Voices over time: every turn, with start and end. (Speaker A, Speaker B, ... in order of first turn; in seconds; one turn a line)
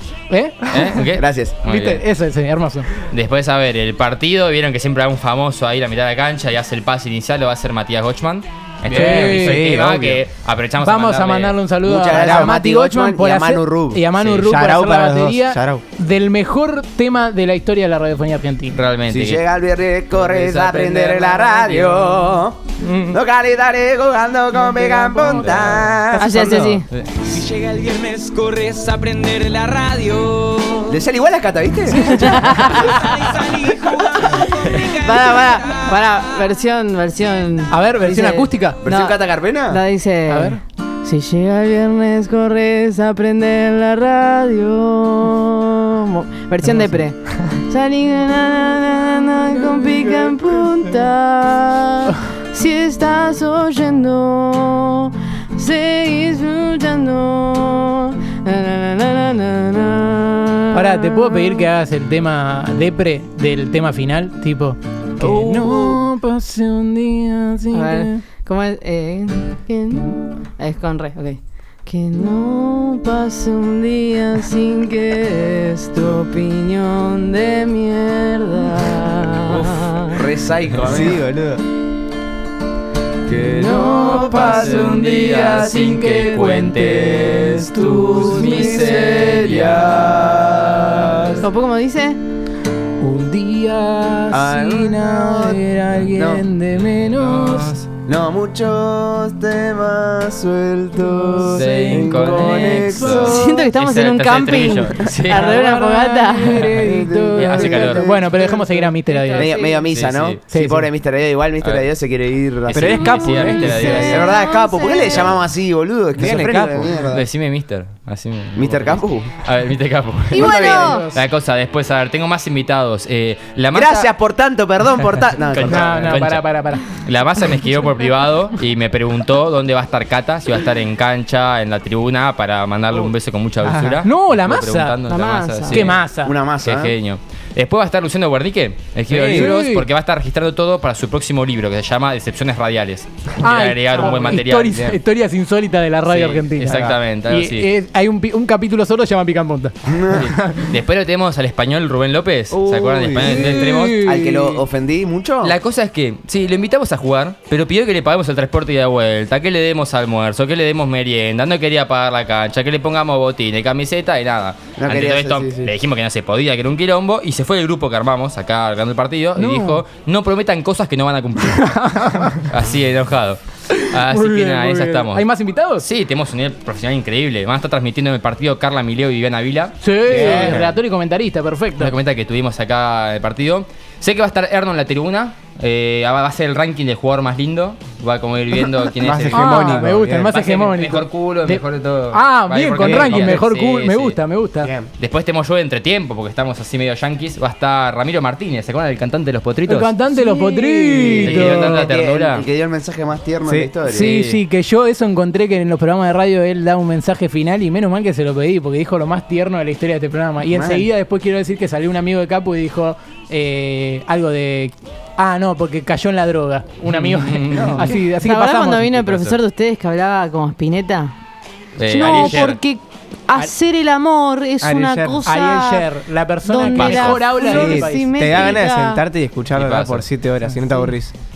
Speaker A: 0.3-2.9
Speaker B: 0.7-2.0
Speaker C: 1.2-1.6
Speaker B: 3.1-11.6
Speaker D: 8.9-10.2
Speaker A: 8.9-9.7
Speaker A: 10.8-18.8
Speaker C: 11.8-14.0
Speaker D: 12.1-12.6
Speaker B: 14.2-14.5
Speaker D: 14.4-15.8
Speaker B: 18.7-19.4
Speaker C: 19.1-26.4
Speaker B: 20.2-22.3
Speaker A: 22.8-23.2
Speaker A: 24.8-25.6
Speaker B: 25.3-25.8
Speaker E: 26.2-26.9
Speaker D: 26.2-26.6
Speaker B: 26.9-27.3
Speaker F: 27.3-30.9
Speaker C: 30.9-32.7
Speaker A: 31.9-32.4
Speaker E: 32.1-33.4
Speaker F: 33.0-35.8
Speaker C: 33.5-34.4
Speaker E: 34.2-61.7
Speaker A: 37.7-38.8
Speaker C: 38.8-39.8
Speaker A: 40.3-40.6
Speaker A: 49.8-50.2
Speaker A: 60.7-68.2
Speaker C: 65.2-66.0
Speaker E: 67.7-80.2
Speaker B: 79.5-79.8
Speaker C: 80.1-81.2
Speaker D: 80.8-81.6
Speaker B: 83.3-91.3
Speaker A: 83.5-89.4
Speaker C: 83.8-84.5
Speaker E: 83.9-85.0
Speaker C: 85.4-86.0
Speaker C: 87.2-91.4
Speaker E: 91.4-92.2
Speaker A: 93.0-97.7
Speaker C: 94.3-96.5
Speaker B: 96.7-97.9
Speaker C: 98.1-103.7
Speaker A: 101.1-103.4
Speaker B: 101.4-105.7
Speaker E: 103.2-106.8
Speaker A: 105.3-109.6
Speaker C: 106.6-108.6
Speaker B: 107.4-108.2
Speaker E: 109.1-109.9
Speaker C: 109.4-113.0
Speaker B: 109.8-110.4
Speaker A: 110.5-110.9
Speaker B: 111.6-111.9
Speaker B: 112.7-114.2
Speaker D: 112.7-114.3
Speaker A: 113.2-114.1
Speaker E: 113.8-115.3
Speaker C: 114.1-117.2
Speaker D: 116.2-117.0
Speaker B: 117.1-124.1
Speaker C: 118.6-119.3
Speaker E: 120.3-121.1
Speaker A: 120.4-121.2
Speaker C: 120.4-120.9
Speaker C: 123.7-126.2
Speaker B: 125.5-126.5
Speaker A: 125.7-126.9
Speaker B: 127.0-136.0
Speaker D: 133.6-134.0
Speaker A: 134.0-135.0
Speaker E: 135.1-136.0
Speaker A: 135.7-136.4
Speaker C: 136.2-136.9
Speaker B: 136.6-144.9
Speaker A: 139.1-139.9
Speaker D: 139.2-139.6
Speaker A: 143.4-150.7
Speaker D: 144.7-145.0
Speaker B: 146.1-147.7
Speaker D: 146.7-147.0
Speaker C: 149.9-150.2
Speaker B: 150.1-154.1
Speaker C: 152.5-155.6
Speaker A: 153.2-154.6
Speaker B: 155.4-171.8
Speaker C: 164.8-165.7
Speaker A: 169.4-169.8
Speaker A: 171.4-172.5
Speaker B: 172.5-180.6
Speaker A: 173.7-175.8
Speaker A: 179.8-182.0
Speaker D: 180.1-180.8
Speaker B: 181.8-194.2
Speaker D: 188.8-190.3
Speaker A: 189.3-194.7
Speaker D: 192.8-193.2
Speaker B: 195.0-199.9
Speaker A: 199.7-201.9
Speaker C: 201.0-204.1
Speaker B: 201.2-202.5
Speaker D: 203.4-203.7
Speaker A: 203.9-218.9
Speaker B: 203.9-204.4
Speaker C: 210.5-210.9
Speaker B: 216.9-217.9
Speaker E: 217.8-221.1
Speaker B: 218.9-219.4
Speaker B: 221.8-222.6
Speaker E: 221.8-225.9
Speaker A: 221.9-222.6
Speaker D: 224.6-225.3
Speaker A: 225.2-228.5
Speaker E: 226.4-229.0
Speaker B: 226.7-227.2
Speaker D: 227.4-231.1
Speaker B: 229.5-230.1